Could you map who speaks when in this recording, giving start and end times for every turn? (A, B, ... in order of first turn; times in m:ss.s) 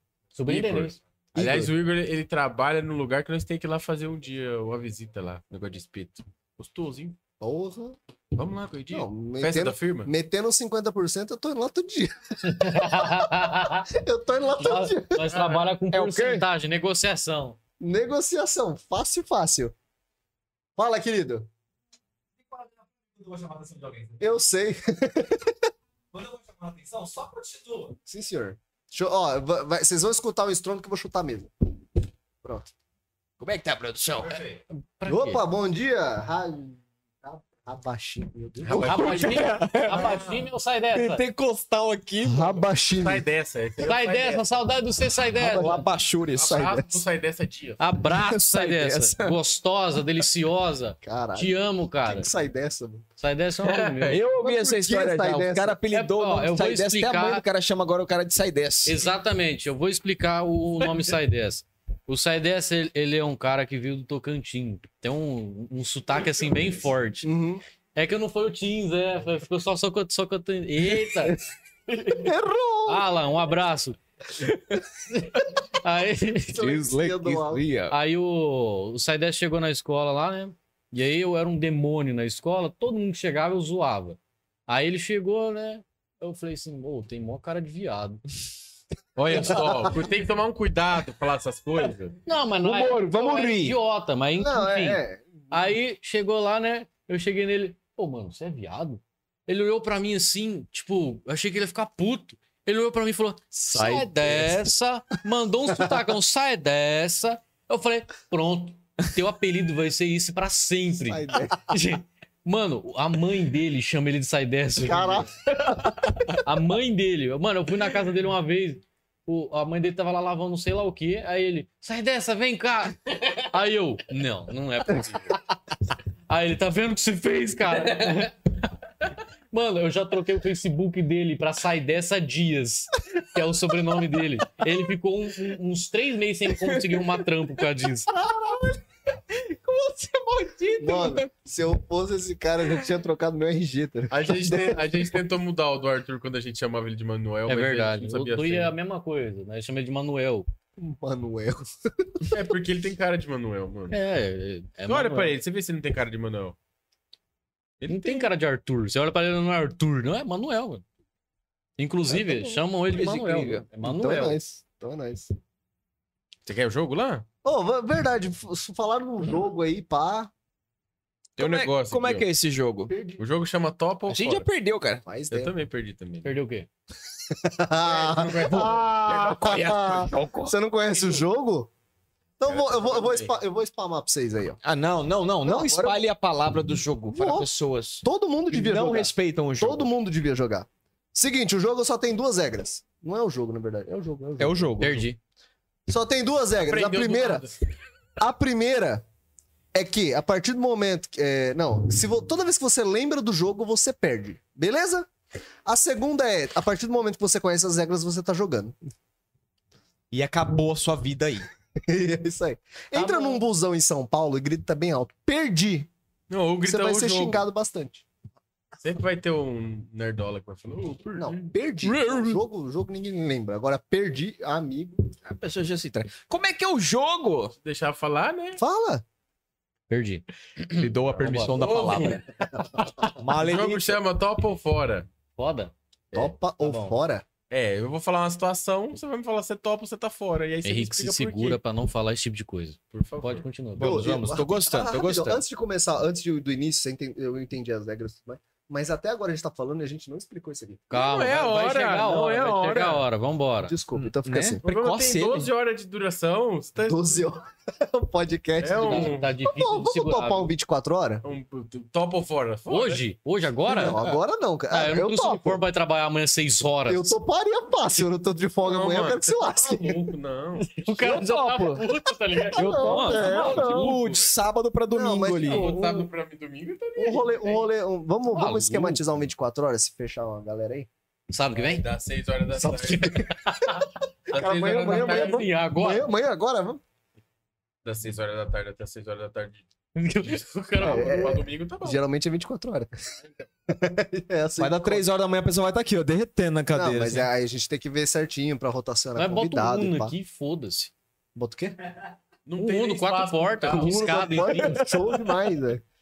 0:00.3-0:01.0 A
0:00.4-0:07.2 B
0:01.3-0:01.7 C
0:07.4-0:08.0 C
0:08.4-0:10.1 B
0:08.9-0:15.3 C
0:12.4-0:13.9 A
0:14.6-0:17.6 A
0:15.3-0:15.7 B
0:15.9-0:16.4 D
0:17.8-0:19.7 C
0:20.8-0:21.5 C
0:22.5-0:24.2 E
0:24.2-0:25.5 C
0:26.1-0:27.9 E
0:28.0-0:31.5 C
0:32.4-0:32.7 C
0:33.4-0:34.6 D
0:34.2-0:34.5 E
0:35.0-0:35.4 A
0:35.0-0:39.2 C
0:38.6-0:40.4 B
0:38.7-0:40.2 D
0:38.7-0:41.2 A
0:40.9-0:42.6 D
0:42.2-0:43.2 C
0:43.0-0:44.4 B
0:43.8-0:45.8 A
0:45.4-0:45.8 C
0:45.4-0:46.8 D
0:46.3-0:47.8 B
0:47.8-0:52.3 A
0:48.1-0:49.4 D
0:51.0-0:53.0 C
0:53.2-0:54.2 A
0:53.6-0:54.2 B
0:54.1-0:59.0 D
0:54.4-0:55.8 C
0:55.9-0:57.4 A
0:58.8-1:07.3 A
1:07.2-1:07.6 C
1:07.9-1:11.4 A
1:12.0-1:13.1 C
1:12.8-1:14.0 A
1:15.1-1:16.7 A
1:16.5-1:17.6 C
1:16.6-1:18.0 D
1:17.9-1:28.2 A
1:29.2-1:32.2 B
1:29.3-1:29.6 A
1:32.2-1:55.3 A
1:32.6-1:33.8 D
1:34.4-1:35.7 C
1:43.5-1:44.6 D
1:51.0-1:51.6 C
1:54.8-1:55.3 C
1:55.7-1:56.2 D
1:56.4-2:05.3 A
2:06.3-2:08.3 A
2:09.5-2:18.1 A
2:16.6-2:17.2 D
2:18.1-2:21.3 D
2:20.8-2:25.0 C
2:24.1-2:28.7 B
2:27.5-2:30.5 A
2:30.8-2:32.4 C
2:32.3-2:34.0 B
2:33.9-2:35.3 A
2:34.9-2:36.6 B
2:37.8-2:38.3 B
2:37.9-2:40.8 A
2:41.8-2:44.4 A
2:42.1-2:42.6 C
2:42.9-2:43.7 D
2:43.8-2:45.3 C
2:46.4-2:47.2 B
2:47.4-2:50.3 C
2:51.4-2:52.3 B
2:51.4-2:52.9 D
2:52.9-2:53.2 C
2:53.2-2:54.5 B
2:54.1-2:55.0 D
2:55.0-2:55.5 C
2:55.3-2:56.3 B
2:56.2-2:56.7 A
2:57.3-3:01.7 C
2:57.8-2:59.7 B
2:59.1-3:00.5 D
3:02.4-3:04.6 C
3:02.4-3:03.3 B
3:04.6-3:09.9 D
3:05.4-3:06.0 C
3:07.1-3:07.5 C
3:08.0-3:14.7 C
3:14.4-3:15.0 D
3:14.8-3:15.2 A
3:15.9-3:17.4 C
3:16.6-3:17.5 B
3:18.2-3:19.0 C
3:19.7-3:25.1 C
3:25.6-3:28.8 C
3:30.1-3:31.5 D
3:31.8-3:35.9 C
3:32.9-3:33.4 A
3:36.3-3:37.4 B
3:36.6-3:38.0 C
3:38.8-3:41.5 B
3:41.1-3:45.1 C
3:41.8-3:42.4 A
3:45.2-3:47.5 D
3:47.6-3:48.6 B
3:48.6-3:49.0 C
3:49.9-3:51.6 A
3:50.8-3:52.2 D
3:51.4-3:52.2 B
3:53.2-3:54.0 D
3:53.3-3:55.1 B
3:55.4-3:55.7 A
3:56.1-3:57.2 C
3:56.6-3:57.0 A
3:57.5-4:01.6 B
4:00.6-4:04.1 A
4:02.9-4:03.4 B
4:03.8-4:05.4 D
4:03.8-4:10.9 C
4:10.9-4:13.8 A
4:10.9-4:13.0 B
4:13.6-4:14.6 C
4:13.9-4:15.5 D
4:14.6-4:17.2 B
4:16.8-4:21.2 C
4:18.6-4:19.3 B
4:18.8-4:20.5 A
4:21.2-4:23.0 B
4:22.7-4:24.0 A
4:23.7-4:25.6 C
4:24.7-4:27.2 A
4:26.8-4:30.0 C
4:28.6-4:30.9 B
4:30.6-4:34.3 A
4:31.0-4:31.8 D
4:32.5-4:34.0 C
4:32.5-4:35.7 D
4:34.9-4:36.1 C
4:35.4-4:37.7 B
4:37.0-4:40.9 C
4:38.3-4:39.0 A
4:41.3-4:41.8 A
4:41.5-4:43.2 B
4:42.6-4:43.3 C
4:42.6-4:43.9 A
4:44.3-4:46.8 C
4:44.3-4:45.5 B
4:44.8-4:46.1 A
4:47.8-4:49.6 B
4:50.0-4:51.2 A
4:50.8-4:52.0 B
4:50.8-4:53.0 C
4:53.7-4:55.1 C
4:54.6-4:57.3 D
4:56.7-5:00.2 C
4:59.2-5:00.9 A
5:01.3-5:01.8 C
5:02.4-5:04.4 B
5:02.6-5:04.9 A
5:03.7-5:05.8 C
5:04.6-5:05.0 D